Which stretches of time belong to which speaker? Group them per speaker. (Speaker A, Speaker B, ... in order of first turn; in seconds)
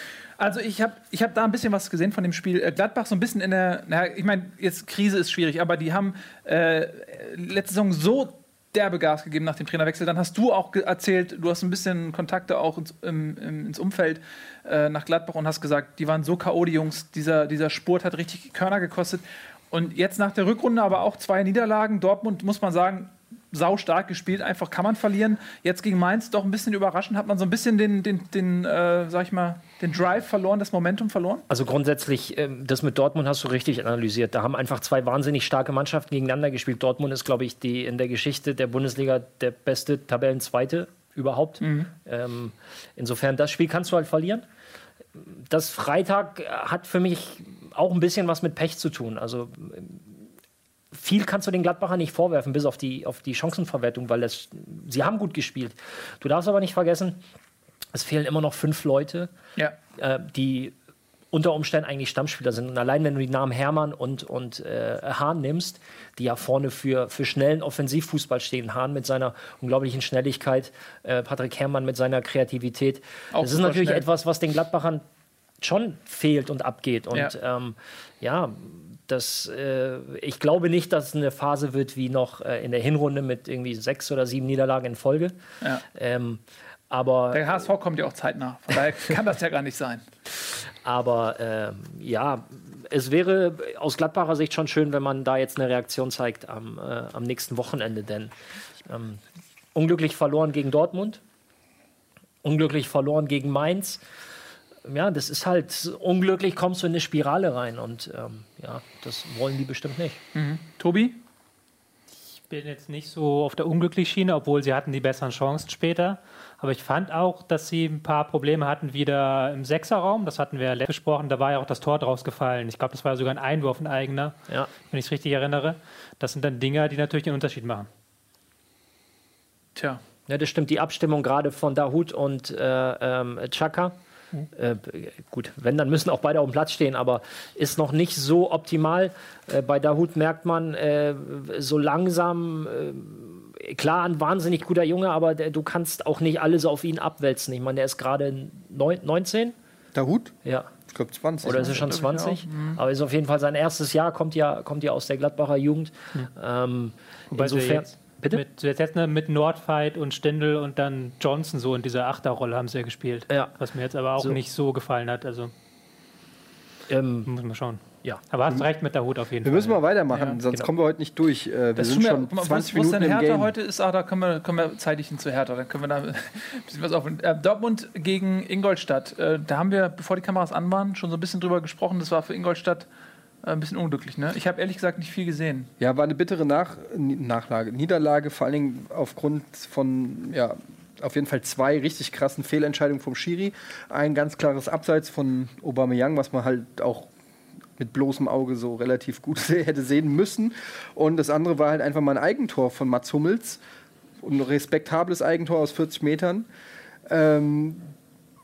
Speaker A: 0.4-31.4, 41.6-41.9, 73.3-74.1, 87.3-90.0, 110.3-111.2, 129.8-130.0, 151.5-152.8, 170.1-170.4, 171.8-182.9, 183.4-185.7
Speaker B: 31.5-44.4, 45.3-50.2, 50.9-57.2, 57.9-59.3, 60.0-60.7, 61.3-75.0, 75.6-85.4, 85.9-87.7, 90.8-98.3, 98.9-99.2, 99.7-101.2, 102.4-104.0, 104.8-110.2, 130.3-134.0, 134.6-149.6, 150.4-150.7, 151.4-158.4, 166.9-167.3
Speaker C: 112.4-127.9, 157.3-165.5, 167.3-169.8
Speaker D: 149.9-150.3, 150.9-152.0, 169.4-173.5, 185.8-197.1, 197.8-203.6, 204.2-206.5, 207.1-207.9